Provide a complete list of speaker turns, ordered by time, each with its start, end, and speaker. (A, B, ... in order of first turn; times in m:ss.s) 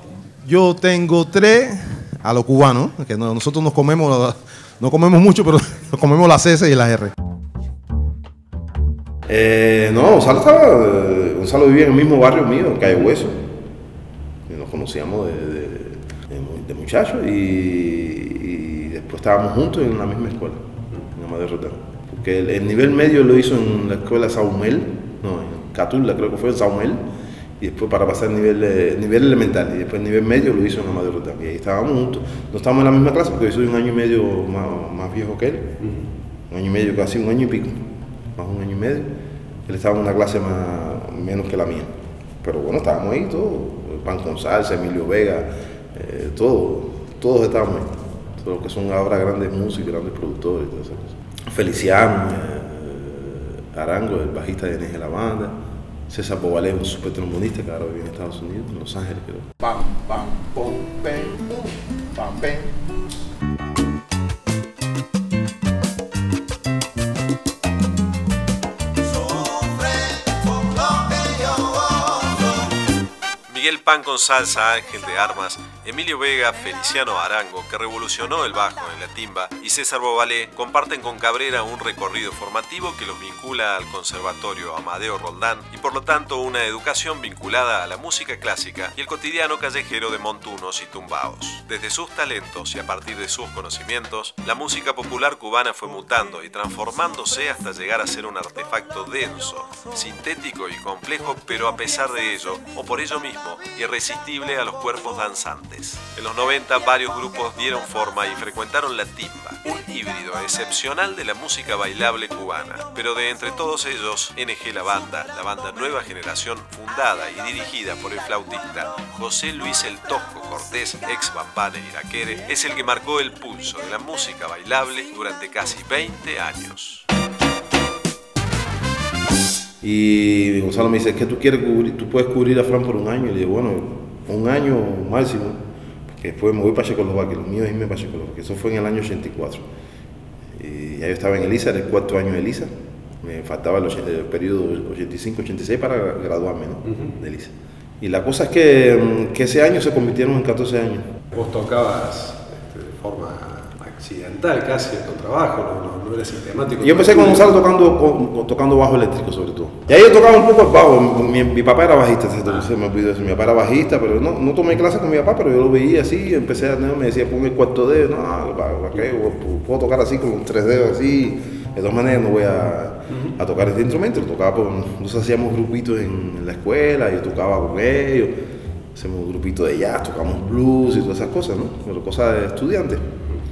0:00.4-0:07.1 A
0:09.3-0:13.4 B
0:14.5-0:27.0 B
0:27.6-0:35.8 B
0:35.8-0:36.1 C
0:36.5-0:55.6 B
0:56.1-0:59.5 B
0:59.6-1:02.7 A
1:11.2-1:11.6 A
1:13.5-2:07.1 D
2:09.8-2:19.6 B
2:20.5-2:22.7 B
2:23.2-2:31.2 B
2:26.8-2:27.1 C
2:31.3-2:37.5 C
2:36.8-2:58.4 B
2:53.1-2:53.4 C
2:58.9-3:03.1 B